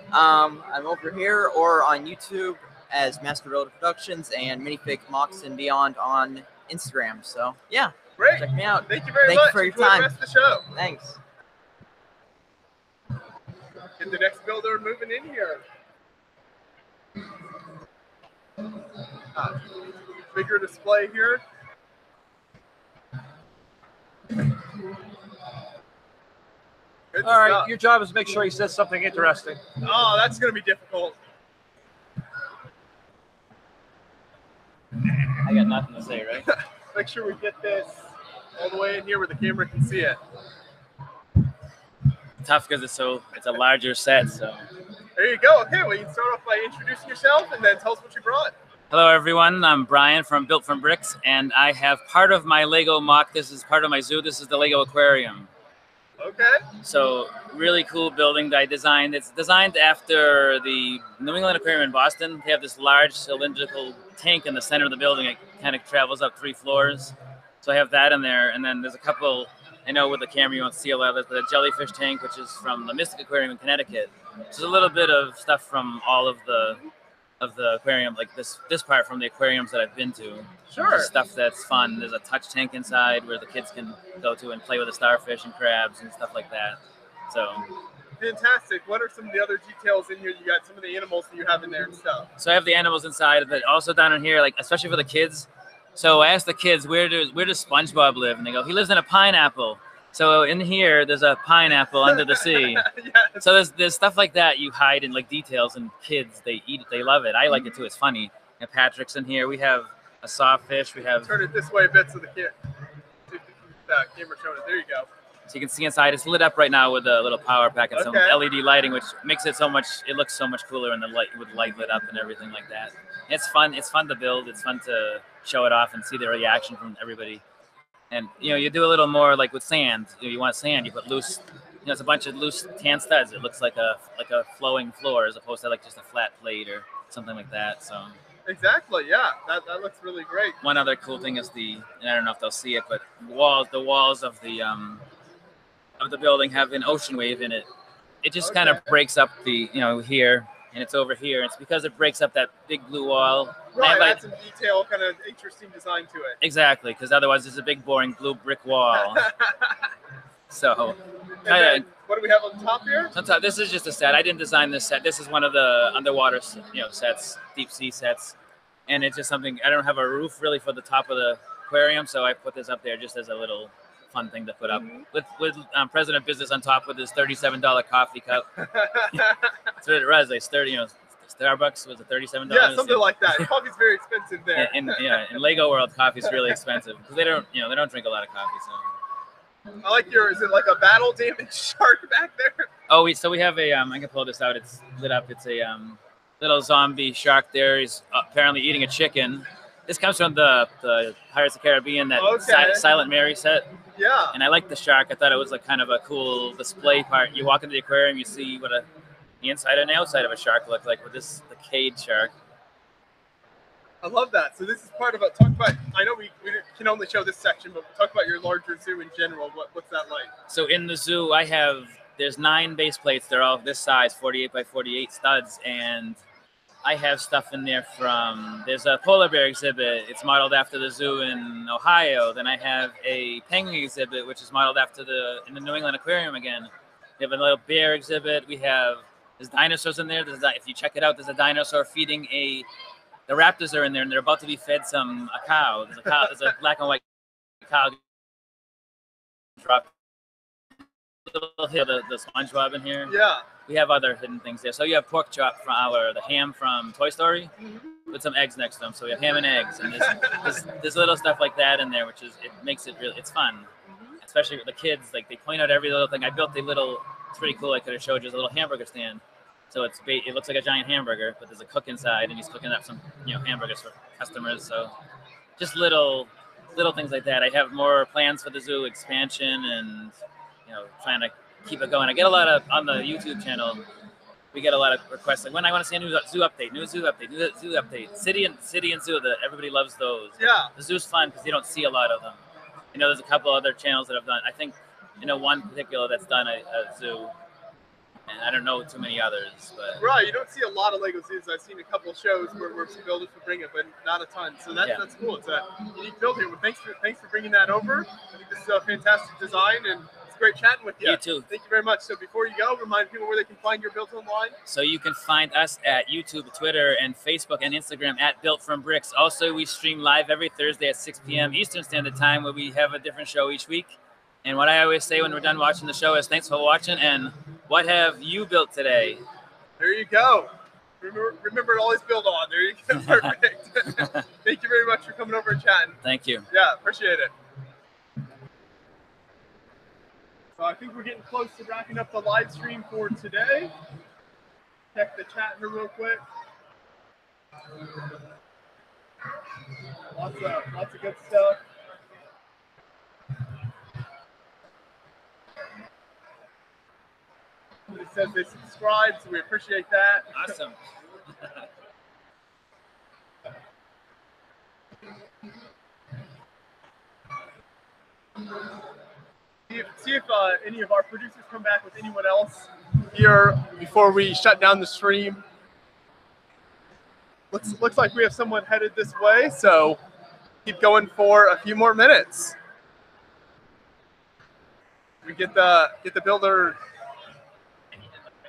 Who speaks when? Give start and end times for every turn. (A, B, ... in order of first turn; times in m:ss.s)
0:00.1-0:10.1 A
0:08.2-0:10.6 B
0:10.8-0:11.1 A
0:14.0-0:15.6 B
0:19.4-0:19.8 B
0:20.3-0:21.4 B
0:27.1-0:27.7 B
0:27.2-0:29.6 C
0:29.8-0:31.2 B
0:35.3-0:36.5 D
0:36.9-0:40.2 B
0:42.4-0:44.6 D
0:45.2-0:48.5 B
0:48.9-0:55.5 D
0:56.2-0:56.6 B
0:56.8-1:16.8 D
1:17.4-1:27.7 D
1:20.7-1:21.1 B
1:28.2-1:32.3 B
1:32.4-1:42.9 D
1:42.3-1:43.5 B
1:43.4-1:51.3 D
1:51.2-1:52.5 B
1:53.3-1:55.1 B
1:55.5-2:07.4 D
1:57.9-1:58.4 B
2:08.1-2:18.2 D
2:18.5-2:20.6 B
2:20.6-2:25.0 D
2:26.0-2:27.7 D
2:28.2-2:34.2 D
2:28.4-2:28.9 B
2:33.7-2:36.4 B
2:36.4-2:39.3 D
2:38.9-2:39.9 B
2:40.5-2:41.9 D
2:41.4-2:43.1 B
2:43.2-2:48.4 D
2:48.9-2:58.5 D
2:54.7-2:55.0 B
2:58.6-2:59.5 B
2:59.8-3:03.5 D
3:02.5-3:05.0 B
3:04.6-3:08.9 D
3:09.8-3:12.7 B
3:12.9-3:23.7 D
3:22.2-3:22.9 B
3:24.0-3:24.4 B
3:24.3-3:28.9 D
3:29.4-3:32.3 D
3:34.0-3:40.3 B
3:40.5-3:46.2 D
3:46.8-4:02.7 D
4:03.3-4:07.0 D
4:07.6-4:08.0 D
4:09.6-4:09.9 D
4:11.3-4:13.1 D
4:13.1-4:13.4 B
4:13.7-4:17.5 D
4:17.6-4:18.1 B
4:18.1-4:23.7 D
4:20.0-4:20.6 B
4:23.9-4:24.2 B
4:24.2-4:34.9 D
4:35.6-4:40.2 D
4:40.7-4:43.8 D
4:44.5-4:52.4 D
4:50.4-4:50.7 B
4:52.9-4:57.3 D
4:58.3-5:00.0 D
5:00.0-5:14.6 B
5:11.0-5:11.5 D
5:14.7-5:29.2 D
5:29.8-5:36.0 B
5:36.0-5:36.4 D
5:36.5-5:37.3 B
5:40.6-5:43.7 B
5:45.0-5:46.2 B
5:50.1-5:51.6 B
5:57.9-6:00.5 B
6:00.3-6:00.8 D
6:09.7-6:15.4 B
6:17.5-6:20.0 B
6:20.6-6:22.6 B
6:25.2-6:26.8 B